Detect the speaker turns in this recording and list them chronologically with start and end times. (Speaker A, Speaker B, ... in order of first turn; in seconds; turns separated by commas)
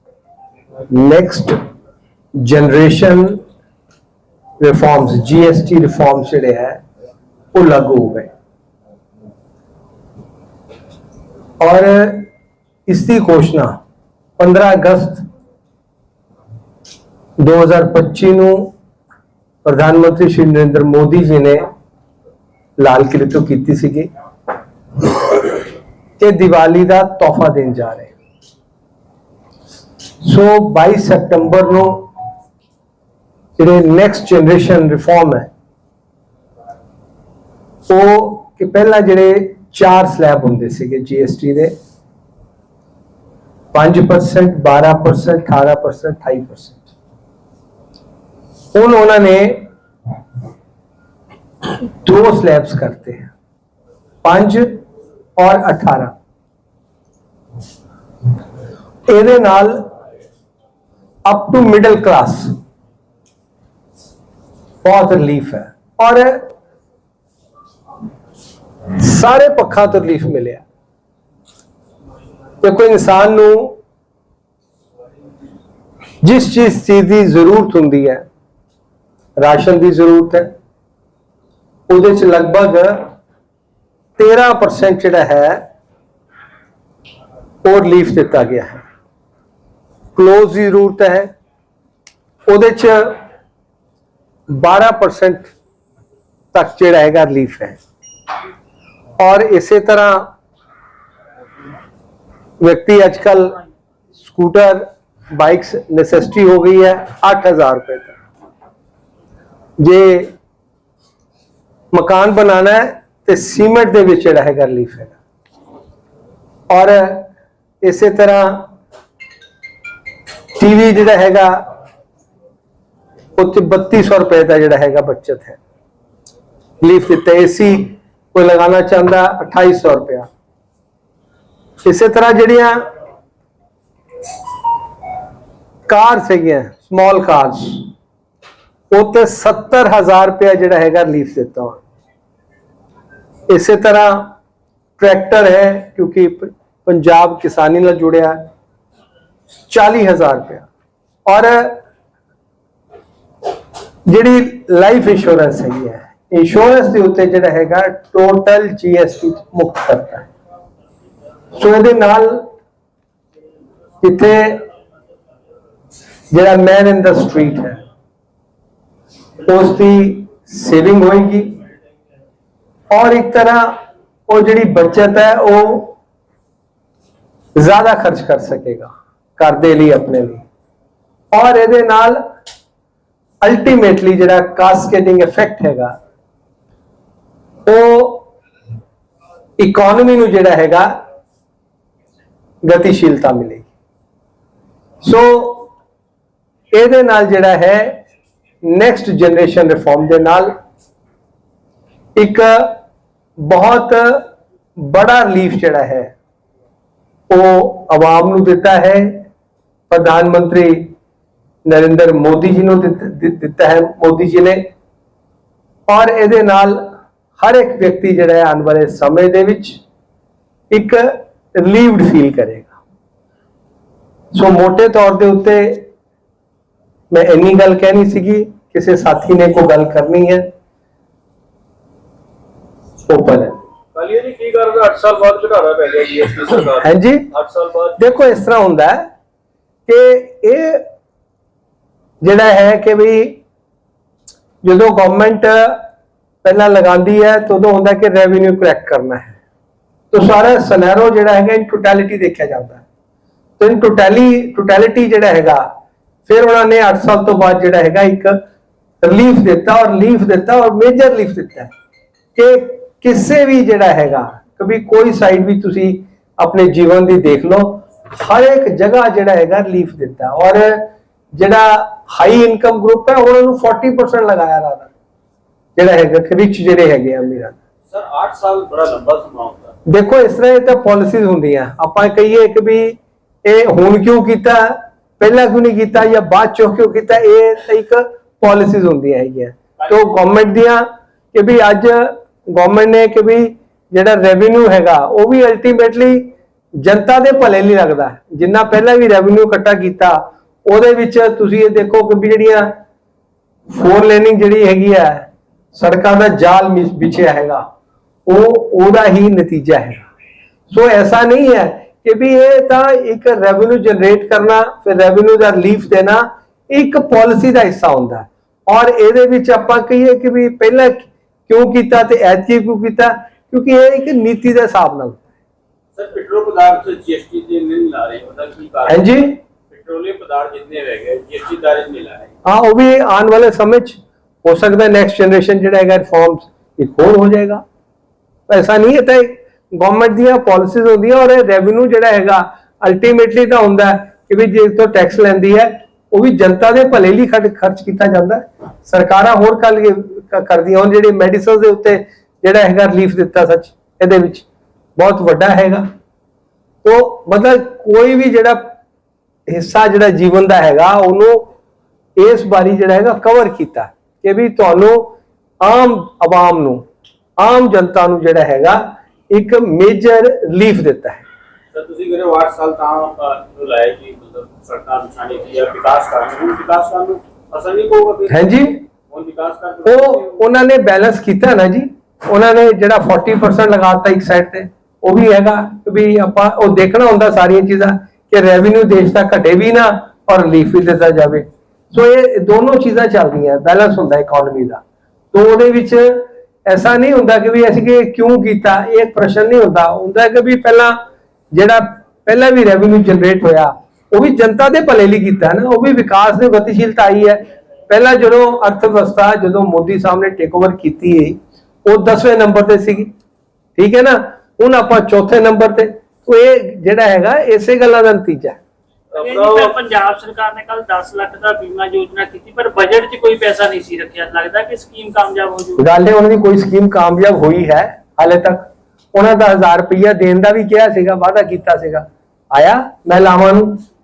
Speaker A: 0.9-1.6, Speaker A: 2.4-3.4, Speaker A: 4.6-6.8, Speaker A: 7.5-8.3, Speaker A: 11.6-12.3, Speaker A: 12.9-13.8, Speaker A: 14.4-15.2, Speaker A: 17.4-18.7, Speaker A: 19.6-21.7, Speaker A: 22.8-24.1, Speaker A: 26.2-28.1, Speaker A: 30.2-32.1, Speaker A: 33.6-35.5, Speaker A: 37.9-41.7, Speaker A: 43.7-46.9, Speaker A: 48.7-49.7, Speaker A: 51.9-53.3, Speaker A: 54.2-54.8, Speaker A: 55.4-56.1, Speaker A: 59.1-59.9, Speaker A: 61.2-62.5, Speaker A: 64.8-66.5, Speaker A: 69.0-70.6, Speaker A: 72.6-73.8, Speaker A: 76.2-78.2, Speaker A: 79.4-80.5, Speaker A: 81.9-83.1, Speaker A: 84.2-85.6, Speaker A: 87.6-88.8, Speaker A: 90.2-91.3, Speaker A: 92.5-93.2, Speaker A: 94.5-95.5, Speaker A: 96.5-97.8, Speaker A: 99.2-100.3, Speaker A: 102.6-103.6, Speaker A: 104.2-108.2, Speaker A: 109.8-110.3, Speaker A: 111.9-115.2, Speaker A: 116.7-117.3, Speaker A: 117.8-118.7, Speaker A: 120.6-121.6, Speaker A: 123.4-125.6, Speaker A: 126.8-130.3, Speaker A: 131.8-132.8, Speaker A: 135.9-137.9, Speaker A: 138.9-141.8, Speaker A: 143.5-144.3, Speaker A: 145.0-148.5, Speaker A: 149.7-150.7, Speaker A: 151.3-151.8, Speaker A: 154.1-160.3, Speaker A: 161.5-162.5, Speaker A: 164.0-164.6, Speaker A: 166.3-167.8, Speaker A: 169.4-171.6, Speaker A: 172.9-176.0, Speaker A: 177.6-180.4, Speaker A: 181.3-182.2, Speaker A: 183.4-185.9, Speaker A: 187.7-188.3, Speaker A: 189.6-190.9, Speaker A: 192.6-193.7, Speaker A: 195.0-195.7, Speaker A: 196.7-198.0, Speaker A: 198.6-200.5, Speaker A: 202.2-202.8, Speaker A: 203.4-206.1, Speaker A: 207.3-209.3, Speaker A: 209.9-210.9, Speaker A: 211.7-214.6, Speaker A: 215.9-219.8, Speaker A: 220.7-222.7, Speaker A: 224.3-225.9, Speaker A: 227.1-230.5, Speaker A: 233.1-233.6, Speaker B: 233.9-238.0, Speaker A: 236.8-237.3, Speaker A: 238.0-239.0, Speaker A: 239.9-240.8, Speaker A: 242.2-243.4, Speaker A: 244.6-245.8, Speaker A: 246.4-249.3, Speaker A: 250.1-252.8, Speaker A: 253.6-255.7, Speaker A: 256.2-258.4, Speaker A: 259.0-261.7, Speaker A: 262.3-274.9, Speaker A: 275.8-277.6, Speaker B: 277.9-279.7, Speaker A: 279.9-302.8, Speaker A: 303.7-307.6, Speaker A: 308.3-310.1, Speaker A: 310.7-325.2, Speaker B: 325.9-329.1, Speaker A: 328.9-329.4, Speaker B: 329.7-332.3, Speaker A: 332.4-337.6, Speaker A: 338.5-355.9, Speaker A: 356.8-358.7, Speaker A: 359.5-361.5, Speaker A: 362.2-366.8, Speaker A: 367.4-371.2, Speaker B: 371.7-378.5, Speaker A: 378.3-378.8, Speaker B: 379.1-380.4, Speaker A: 379.9-401.0, Speaker A: 401.5-413.1, Speaker A: 413.8-418.6, Speaker B: 419.1-419.8, Speaker C: 419.1-425.8, Speaker A: 425.8-433.8